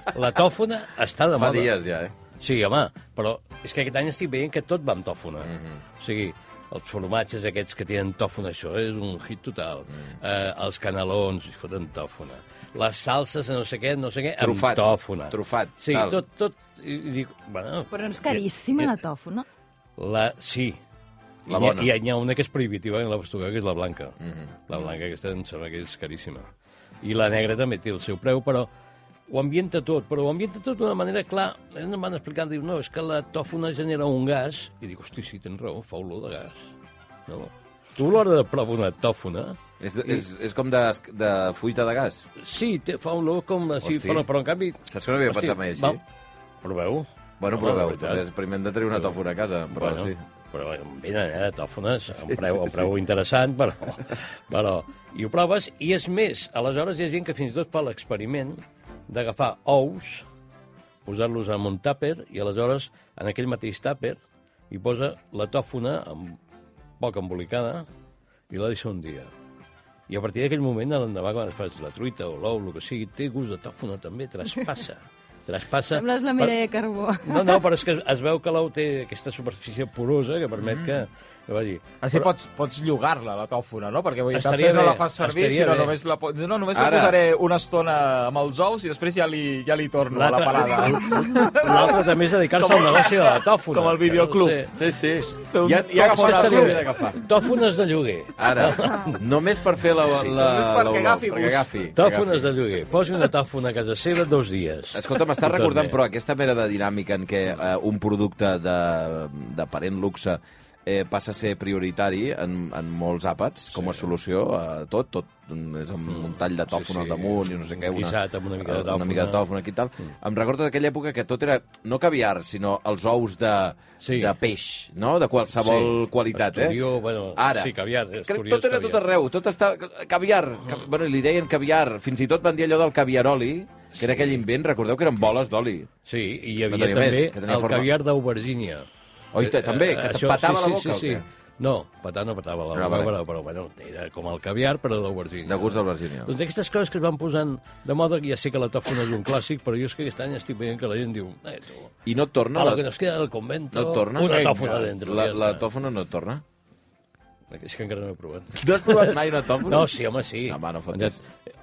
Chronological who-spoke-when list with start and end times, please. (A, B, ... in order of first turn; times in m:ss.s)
0:00.1-0:01.8 A
0:01.4-0:02.1 B
0:02.4-0:19.0 A
0:05.4-0:05.8 B
0:14.4-0:16.2 B
0:17.9-0:19.4 C
0:20.0-0:20.8 A
0:21.5-0:21.9 B
0:21.5-0:24.2 A
0:24.2-0:24.5 B
0:24.7-0:26.5 A
0:27.0-0:28.7 A
0:29.3-0:36.7 A
0:37.3-0:40.2 A
0:39.8-0:42.3 B
0:42.4-0:46.0 A
0:43.8-0:44.3 B
0:44.9-0:46.0 B
0:46.6-0:48.2 A
0:47.4-0:50.2 B
0:49.7-1:00.3 A
0:52.3-0:52.9 B
1:01.1-1:06.4 A
1:07.0-1:07.8 A
1:08.5-1:09.3 A
1:10.1-1:16.5 A
1:15.9-1:17.6 C
1:17.2-1:22.3 A
1:20.6-1:20.9 D
1:22.0-1:34.6 D
1:24.3-1:26.0 A
1:26.7-1:27.2 B
1:30.1-1:34.7 A
1:34.8-1:37.2 B
1:35.4-1:36.9 D
1:36.0-1:39.2 A
1:38.4-1:42.5 B
1:40.1-1:41.7 D
1:42.0-1:46.0 A
1:44.9-2:06.8 B
1:53.7-1:54.1 A
1:56.1-1:59.5 A
2:04.0-2:04.3 A
2:05.6-2:09.0 A
2:07.4-2:07.7 B
2:08.2-2:15.9 B
2:14.0-2:14.4 A
2:16.1-2:18.9 A
2:16.7-2:17.9 B
2:19.3-2:21.2 B
2:19.4-2:31.9 A
2:22.7-2:23.1 B
2:25.4-2:26.3 B
2:32.1-2:32.8 B
2:32.6-2:35.6 A
2:33.7-2:36.4 B
2:34.4-2:34.8 D
2:37.5-2:41.2 A
2:38.6-2:41.2 B